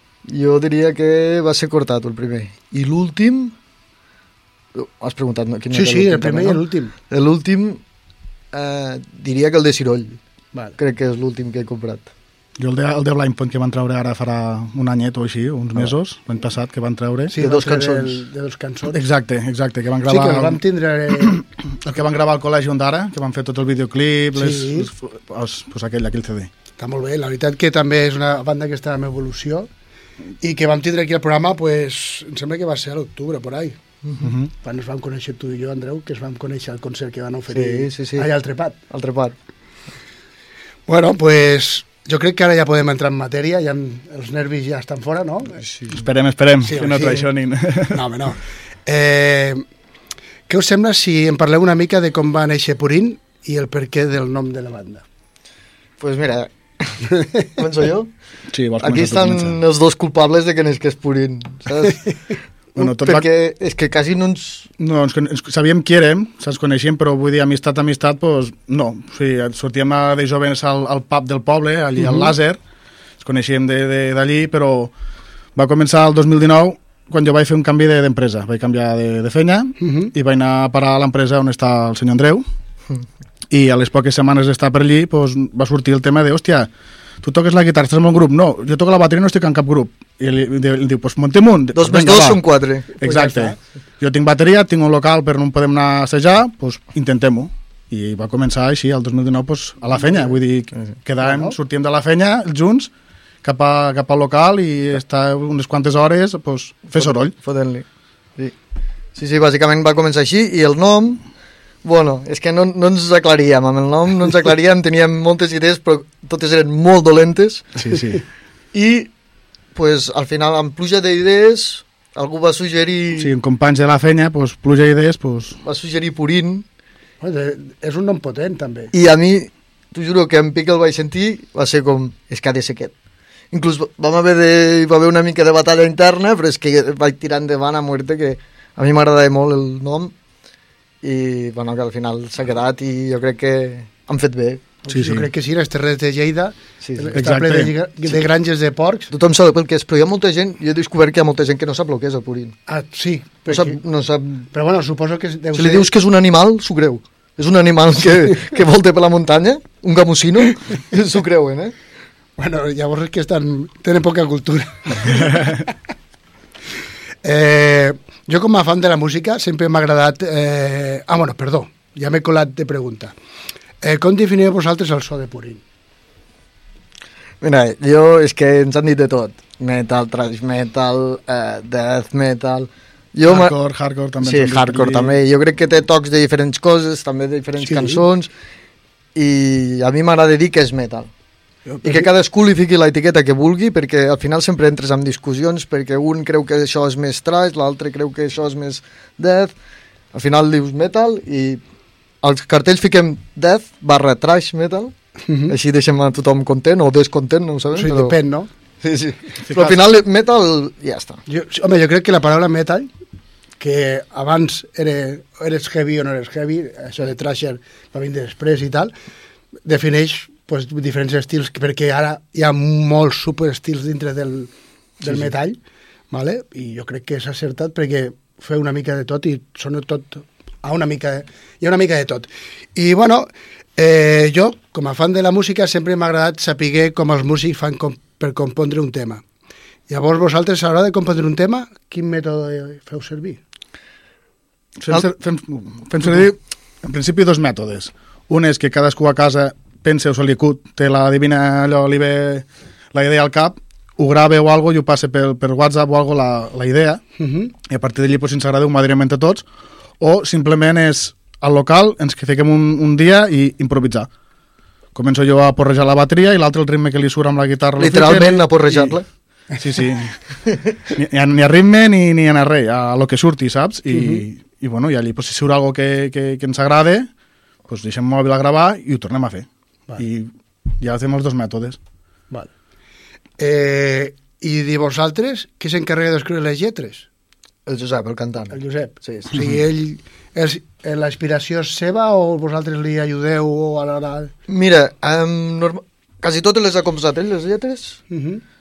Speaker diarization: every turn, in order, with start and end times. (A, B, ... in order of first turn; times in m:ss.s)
0:00.3-0:03.5 A
0:04.7-0:07.8 A
0:05.7-0:06.9 B
0:08.5-0:10.2 A
0:10.8-0:12.1 A
0:12.6-0:17.3 C
0:17.3-0:19.0 B
0:17.4-0:18.2 A
0:18.9-0:20.6 C
0:20.0-0:21.4 B
0:21.2-0:26.5 C
0:24.4-0:24.9 B
0:26.8-0:29.7 B
0:30.4-0:33.8 B
0:34.2-0:34.5 C
0:34.6-0:38.8 B
0:37.5-0:38.3 A
0:38.9-0:39.3 A
0:40.9-0:45.6 B
0:45.9-0:48.0 C
0:46.6-0:47.3 B
0:47.9-0:49.6 B
0:50.5-0:55.0 B
0:56.0-0:58.1 A
0:57.1-0:57.4 B
0:58.5-0:59.6 C
0:58.8-1:02.1 A
1:02.8-1:04.7 A
1:02.8-1:03.3 C
1:04.8-1:12.6 C
1:12.0-1:12.3 B
1:13.2-1:14.9 C
1:15.5-1:22.4 C
1:19.8-1:20.1 B
1:23.5-1:26.7 C
1:27.2-1:32.4 C
1:31.7-1:32.9 A
1:33.0-1:42.9 C
1:33.0-1:33.6 B
1:40.0-1:40.3 B
1:41.2-1:41.6 B
1:43.4-1:47.3 C
1:46.9-1:47.8 A
1:49.2-1:51.2 A
1:51.8-1:57.7 A
1:57.8-1:58.2 C
1:58.7-1:59.1 A
1:59.7-2:03.3 A
2:03.2-2:05.6 C
2:05.6-2:06.6 A
2:07.2-2:08.9 B
2:08.9-2:12.9 A
2:13.5-2:20.1 A
2:21.0-2:24.6 A
2:24.8-2:29.1 B
2:24.9-2:25.3 C
2:26.8-2:27.1 A
2:27.1-2:27.7 C
2:29.1-2:32.6 A
2:32.7-2:33.8 B
2:33.5-2:34.5 A
2:34.5-2:35.9 B
2:35.5-2:41.7 A
2:42.4-2:45.5 B
2:47.2-2:53.1 B
2:53.8-2:55.6 B
2:57.4-3:03.5 A
3:03.2-3:05.2 C
3:04.2-3:08.3 A
3:07.6-3:08.0 B
3:09.1-3:11.1 A
3:11.7-3:12.0 B
3:11.8-3:19.5 A
3:20.1-3:21.6 A
3:22.2-3:24.9 A
3:25.2-3:25.6 B
3:25.5-3:28.2 A
3:27.7-3:28.5 B
3:28.8-3:31.2 A
3:31.3-3:32.9 B
3:33.6-3:38.9 B
3:39.6-3:45.6 B
3:46.1-3:59.2 B
3:59.9-4:03.4 B
4:04.8-4:17.0 C
4:17.2-4:17.5 B
4:17.7-4:19.4 C
4:20.0-4:24.1 C
4:24.9-4:28.9 C
4:27.8-4:29.0 A
4:29.6-4:30.2 C
4:30.9-4:37.1 C
4:33.9-4:34.2 B
4:37.7-4:41.8 C
4:43.4-4:47.1 B
4:47.7-4:49.4 A
4:48.5-4:54.3 B
4:54.5-4:58.0 A
4:58.1-4:58.4 B